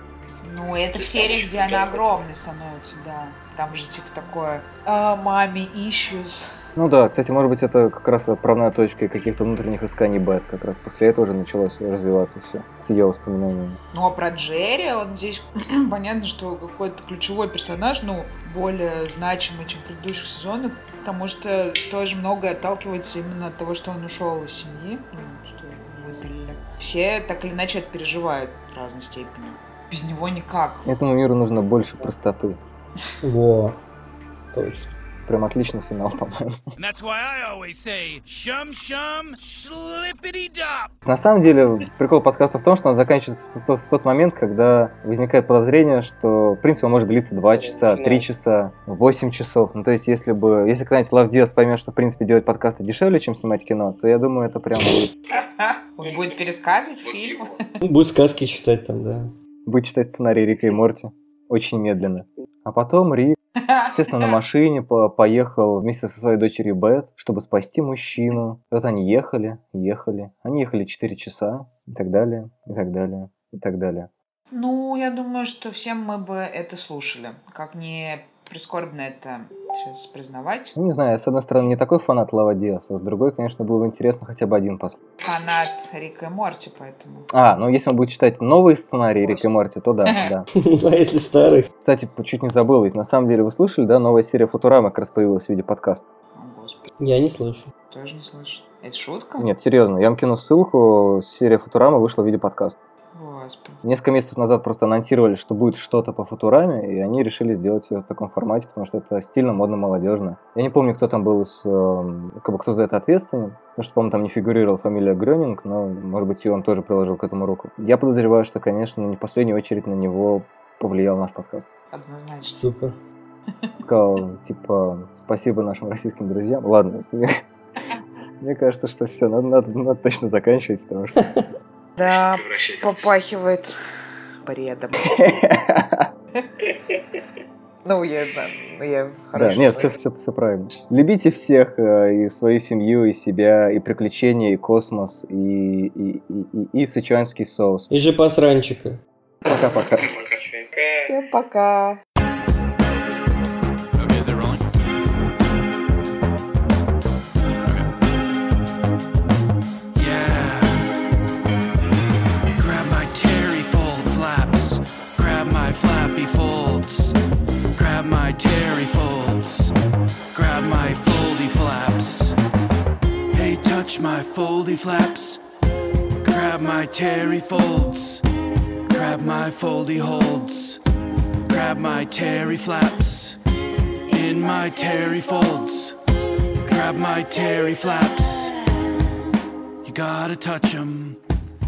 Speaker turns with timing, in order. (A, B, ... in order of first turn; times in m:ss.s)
0:00.4-0:06.6 A
0:01.1-0:02.2 B
0:06.8-0:13.8 C
0:13.9-0:30.9 A
0:30.8-0:32.6 C
0:33.2-0:33.8 D
0:34.5-0:34.9 D
0:35.3-0:36.7 C
0:36.8-0:40.9 E
0:41.0-0:55.1 C
0:47.6-0:48.3 B
0:55.3-0:57.8 A
0:57.8-0:59.3 D
0:59.7-1:03.4 C
1:03.6-1:04.4 A
1:03.9-1:14.1 C
1:14.5-1:20.8 A
1:20.8-1:25.0 C
1:25.2-1:27.3 A
1:27.3-1:30.5 C
1:30.5-1:31.7 D
1:31.8-1:36.0 C
1:36.4-1:36.9 A
1:37.0-1:37.7 D
1:37.9-1:39.5 A
1:39.4-1:42.8 C
1:43.1-1:43.8 A
1:43.8-2:01.7 C
2:01.9-2:02.6 A
2:02.5-2:03.0 D
2:03.8-2:07.4 C
2:08.4-2:11.1 C
2:11.2-2:11.5 D
2:12.0-2:13.8 A
2:14.4-2:15.3 A
2:15.0-2:16.1 C
2:17.8-2:20.0 A
2:19.3-2:27.9 C
2:27.9-2:29.0 D
2:29.4-2:30.1 C
2:30.0-2:31.1 B
2:31.0-2:32.0 A
2:34.1-2:34.3 E
2:40.0-2:40.9 E
2:42.6-2:47.2 E
2:47.7-2:49.8 E
2:50.3-2:52.4 E
2:53.3-2:55.4 E
2:56.2-2:58.2 E
2:58.9-3:00.8 E
3:01.5-3:03.4 E
3:04.1-3:06.0 E
3:06.6-3:08.6 E
3:09.8-3:11.2 E